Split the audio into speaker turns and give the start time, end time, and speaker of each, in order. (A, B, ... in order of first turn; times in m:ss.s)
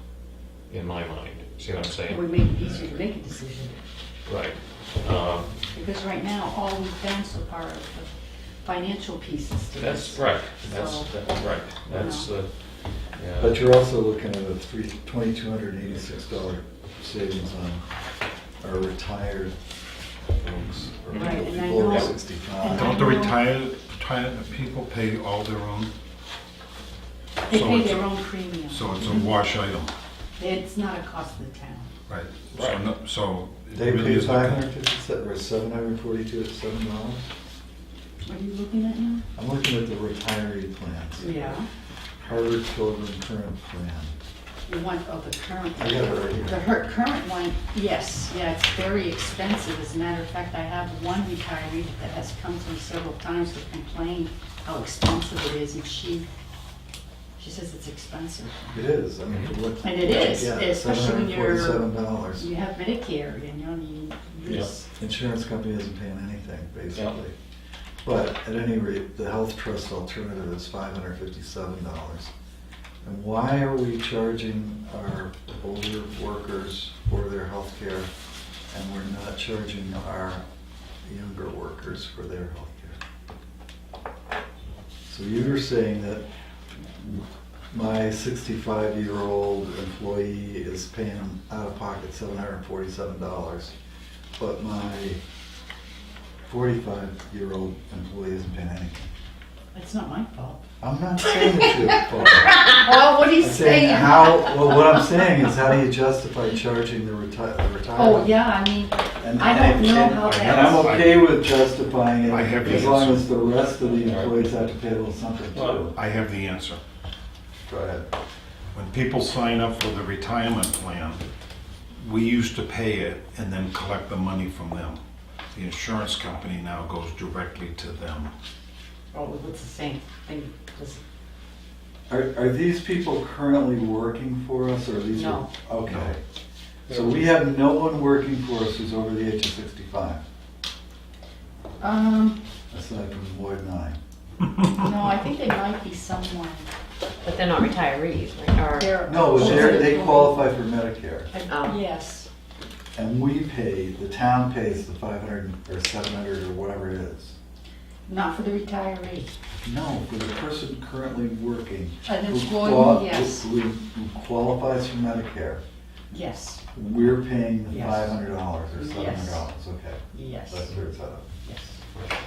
0:00.7-0:02.3 A
0:02.1-0:03.8 B
0:04.2-0:05.6 A
0:05.7-0:08.1 B
0:08.6-0:11.2 B
0:09.8-0:12.5 A
0:11.9-0:12.3 B
0:13.1-0:13.6 A
0:13.4-0:17.8 C
0:18.6-0:19.5 C
0:20.3-0:23.0 C
0:21.1-0:23.4 B
0:21.8-0:22.1 A
0:22.7-0:25.9 D
0:27.5-0:29.9 D
0:27.5-0:29.3 B
0:30.4-0:31.9 B
0:32.1-0:34.7 D
0:32.5-0:32.8 A
0:33.7-0:37.3 C
0:38.2-0:39.2 B
0:39.4-0:41.4 C
0:41.2-0:41.7 B
0:42.2-0:44.2 C
0:44.7-0:56.3 B
0:45.8-0:46.7 C
0:57.4-0:58.8 B
0:58.7-1:02.5 C
0:59.2-0:59.5 A
0:59.8-1:04.9 B
1:04.4-1:04.7 A
1:05.0-1:07.3 C
1:08.0-1:12.3 C
1:13.0-1:18.1 C
1:18.7-1:20.4 C
1:21.0-1:23.0 C
1:25.1-1:26.2 C
1:27.0-1:33.7 C
1:34.4-1:35.2 C
1:36.4-1:39.1 C
1:39.7-1:40.6 B
1:40.8-1:42.7 C
1:42.5-1:44.9 B
1:43.3-1:48.4 C
1:48.0-1:51.0 B
1:49.2-1:55.9 C
1:50.2-1:51.3 D
1:52.2-1:53.3 D
1:54.0-1:54.4 A
1:55.5-1:55.9 A
1:55.9-1:56.8 D
1:57.7-1:58.1 C
1:58.7-2:01.2 D
2:02.0-2:05.0 D
2:05.5-2:08.3 D
2:09.1-2:11.0 B
2:12.1-2:16.2 C
2:15.1-2:15.5 B
2:15.8-2:16.1 D
2:16.9-2:20.2 C
2:21.8-2:22.4 B
2:22.7-2:24.0 C
2:24.7-2:26.7 B
2:27.2-2:30.0 E
2:28.8-2:30.4 B
2:29.0-2:31.3 C
2:31.3-2:31.8 E
2:31.6-2:32.3 B
2:32.9-2:37.4 C
2:38.1-2:39.3 B
2:39.6-2:45.6 C
2:42.0-2:43.5 B
2:46.1-2:46.6 B
2:46.7-2:51.3 C
2:47.7-2:49.5 B
2:50.1-2:50.7 B
2:51.4-2:51.8 B